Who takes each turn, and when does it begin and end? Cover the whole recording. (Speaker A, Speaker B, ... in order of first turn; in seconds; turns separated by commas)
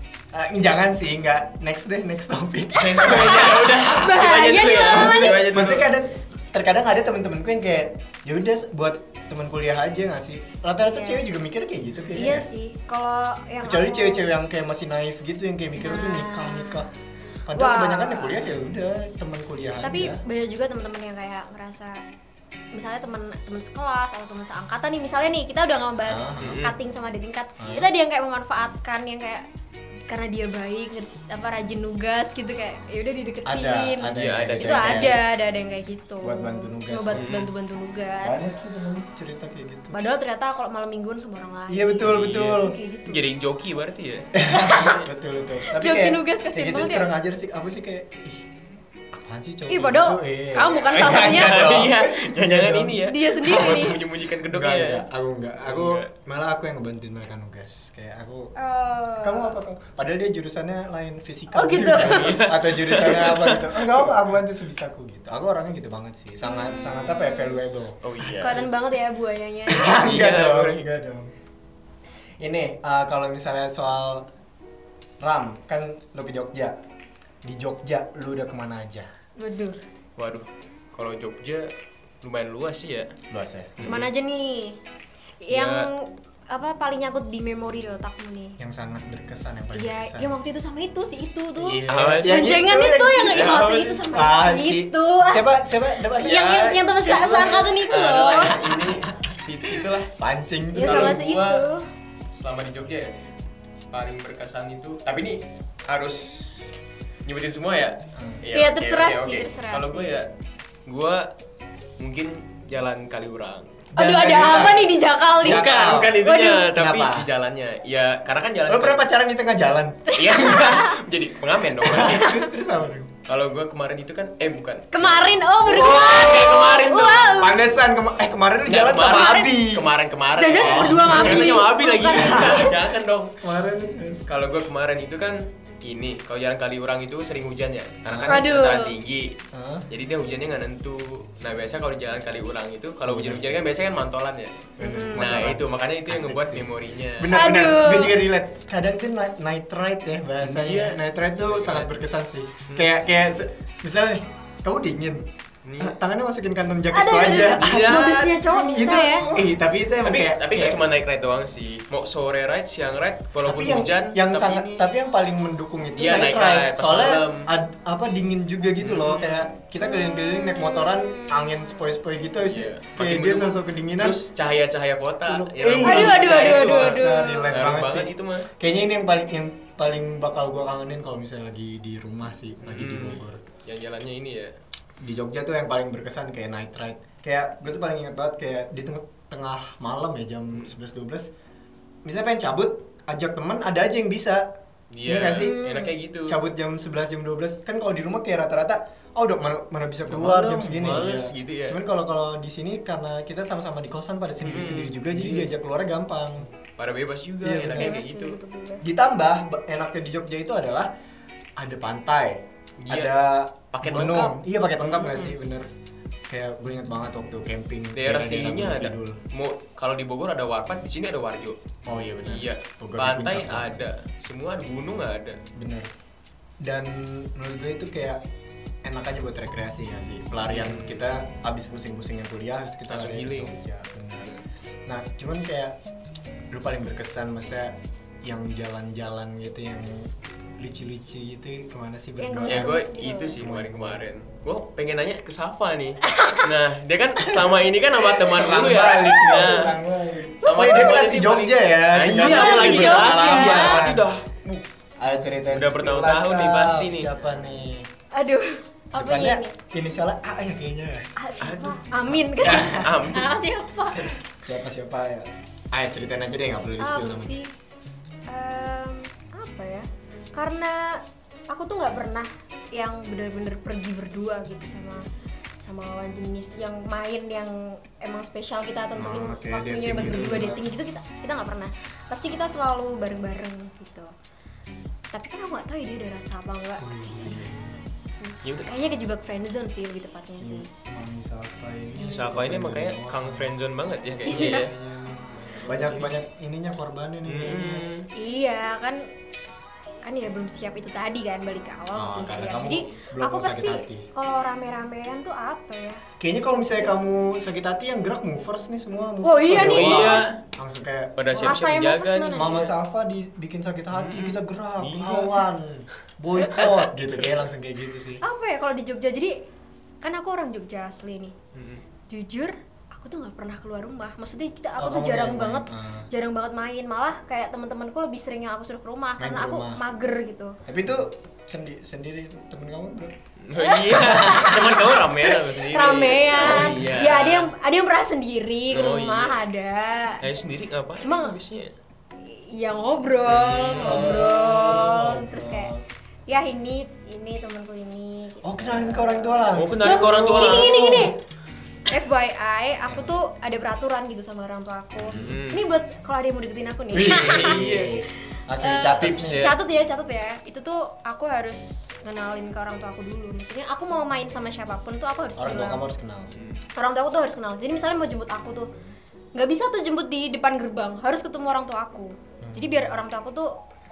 Speaker A: 0.3-12.5, Speaker B: 2.8-6.0, Speaker C: 2.9-5.5, Speaker C: 10.8-11.2, Speaker C: 12.1-14.3, Speaker A: 13.6-16.9, Speaker C: 15.8-16.9, Speaker A: 17.5-20.2, Speaker C: 17.5-18.5, Speaker C: 19.8-22.0, Speaker C: 22.7-29.5, Speaker A: 26.1-26.7, Speaker B: 26.4-26.8, Speaker A: 27.6-27.9, Speaker C: 30.1-38.5, Speaker A: 33.5-35.2, Speaker B: 34.1-35.2, Speaker A: 36.2-37.5, Speaker B: 37.1-37.5, Speaker A: 38.2-40.0, Speaker C: 39.9-43.3, Speaker A: 41.7-42.8, Speaker B: 42.0-44.4, Speaker A: 44.3-48.5, Speaker C: 44.5-45.0, Speaker C: 45.6-47.1, Speaker A: 49.1-58.5, Speaker C: 49.7-51.9, Speaker B: 50.9-55.1, Speaker C: 53.0-54.0, Speaker B: 55.6-56.1, Speaker C: 58.5-59.6, Speaker A: 59.2-68.7, Speaker C: 61.5-62.5, Speaker B: 61.8-64.1, Speaker C: 66.4-67.6, Speaker B: 68.0-68.7, Speaker C: 68.4-70.0, Speaker A: 69.7-71.3, Speaker B: 70.0-70.9, Speaker A: 72.4-74.3, Speaker A: 75.2-76.8, Speaker A: 77.4-79.1, Speaker C: 79.4-79.8, Speaker B: 80.2-81.7, Speaker B: 82.2-83.1, Speaker A: 83.3-84.1, Speaker B: 83.8-84.0, Speaker C: 83.8-84.8, Speaker C: 85.4-88.6, Speaker B: 85.5-85.9, Speaker A: 88.6-90.4, Speaker C: 89.7-95.5, Speaker A: 91.6-97.7, Speaker B: 91.9-92.5, Speaker B: 93.3-94.1, Speaker B: 96.1-100.2, Speaker C: 96.2-98.7, Speaker A: 98.6-99.3, Speaker A: 100.2-101.2, Speaker C: 100.7-101.9, Speaker B: 100.8-101.7, Speaker B: 102.3-103.3, Speaker B: 103.9-110.3, Speaker A: 108.2-108.4, Speaker C: 108.5-110.2, Speaker B: 110.9-111.3, Speaker B: 112.0-114.8, Speaker A: 113.9-117.3, Speaker C: 114.0-116.7, Speaker B: 115.4-119.0, Speaker A: 118.7-120.1, Speaker C: 120.1-121.0, Speaker B: 120.2-122.2, Speaker A: 121.7-123.1, Speaker C: 121.9-122.5, Speaker B: 123.3-127.5, Speaker C: 124.9-127.6, Speaker A: 125.6-126.4, Speaker A: 127.4-129.9, Speaker B: 128.7-133.4, Speaker C: 129.1-129.6, Speaker C: 130.4-132.8, Speaker A: 130.6-132.8, Speaker A: 133.4-134.3, Speaker B: 134.3-139.4, Speaker A: 138.1-138.6, Speaker C: 138.3-139.0, Speaker A: 139.5-139.9, Speaker B: 139.9-147.3, Speaker A: 143.1-143.7, Speaker A: 144.8-155.3, Speaker C: 144.8-145.5, Speaker C: 147.3-148.2, Speaker B: 150.4-152.1, Speaker B: 155.7-156.0, Speaker A: 155.8-160.8, Speaker C: 156.9-159.4, Speaker B: 157.6-158.4, Speaker B: 160.0-164.9, Speaker A: 163.4-174.3, Speaker B: 166.0-167.5, Speaker B: 168.8-169.5, Speaker C: 170.2-172.0, Speaker B: 172.5-178.5, Speaker A: 175.2-183.4, Speaker C: 175.8-177.6, Speaker B: 182.6-184.5, Speaker A: 185.0-191.3, Speaker A: 192.1-194.5, Speaker B: 194.9-196.4, Speaker A: 195.1-195.6, Speaker C: 195.4-196.0, Speaker A: 196.3-206.5, Speaker B: 200.1-201.8, Speaker B: 204.4-205.5, Speaker B: 206.8-208.4, Speaker A: 207.4-208.0, Speaker C: 207.8-208.9, Speaker A: 208.8-210.9, Speaker A: 211.6-215.7, Speaker B: 212.8-213.1, Speaker B: 213.7-215.3, Speaker A: 216.3-219.2, Speaker B: 218.0-221.6, Speaker A: 221.9-223.8, Speaker B: 222.2-225.4, Speaker A: 225.6-225.9, Speaker A: 226.6-228.2, Speaker A: 228.8-234.3, Speaker B: 230.5-231.1, Speaker B: 232.9-233.5, Speaker A: 234.9-235.8, Speaker A: 236.5-242.8, Speaker C: 242.2-243.4, Speaker B: 242.5-249.8, Speaker A: 243.4-244.1, Speaker C: 246.0-246.4, Speaker A: 247.3-254.1, Speaker C: 250.4-250.9, Speaker B: 250.4-254.7, Speaker C: 252.1-253.8, Speaker A: 255.0-257.9, Speaker B: 255.5-257.1, Speaker C: 258.1-259.5, Speaker A: 258.9-261.1, Speaker C: 261.2-264.1, Speaker B: 261.4-261.9, Speaker A: 262.4-263.1, Speaker B: 262.4-263.4, Speaker A: 263.9-267.4, Speaker C: 266.8-267.6, Speaker C: 268.3-275.1, Speaker C: 275.6-284.1, Speaker A: 278.9-280.6, Speaker C: 285.1-290.7, Speaker A: 286.8-287.7, Speaker B: 288.4-288.7, Speaker A: 290.3-293.6, Speaker B: 292.0-294.7, Speaker A: 294.2-297.9, Speaker C: 294.2-294.7, Speaker B: 295.3-296.2, Speaker B: 297.3-298.1, Speaker C: 298.1-299.0, Speaker C: 300.0-306.1, Speaker A: 301.9-304.1, Speaker B: 302.6-303.0, Speaker A: 306.2-311.2, Speaker C: 309.2-310.3, Speaker B: 309.6-310.4, Speaker B: 311.2-312.7, Speaker C: 311.3-312.7, Speaker A: 312.4-318.2, Speaker B: 313.9-315.5, Speaker B: 316.4-317.5, Speaker C: 318.2-319.4, Speaker C: 320.0-321.4, Speaker B: 321.5-321.8, Speaker C: 322.1-330.6, Speaker A: 324.8-326.1, Speaker A: 329.2-329.8, Speaker A: 330.7-333.1, Speaker B: 333.4-337.5, Speaker C: 333.6-340.2, Speaker A: 333.9-334.7, Speaker A: 336.3-337.1, Speaker B: 338.7-339.4, Speaker B: 340.2-341.7, Speaker C: 341.0-341.4, Speaker C: 342.2-345.7, Speaker A: 343.3-345.8, Speaker B: 343.5-344.1, Speaker C: 346.3-351.2, Speaker A: 348.4-351.1, Speaker B: 349.5-351.2, Speaker C: 351.9-357.7, Speaker A: 352.9-353.1, Speaker A: 355.0-355.4, Speaker B: 355.1-355.6, Speaker A: 356.9-359.5, Speaker B: 357.0-358.0, Speaker C: 358.6-365.9, Speaker B: 359.0-359.6, Speaker A: 365.4-366.4, Speaker C: 366.8-368.7, Speaker C: 369.4-373.6, Speaker A: 372.4-373.0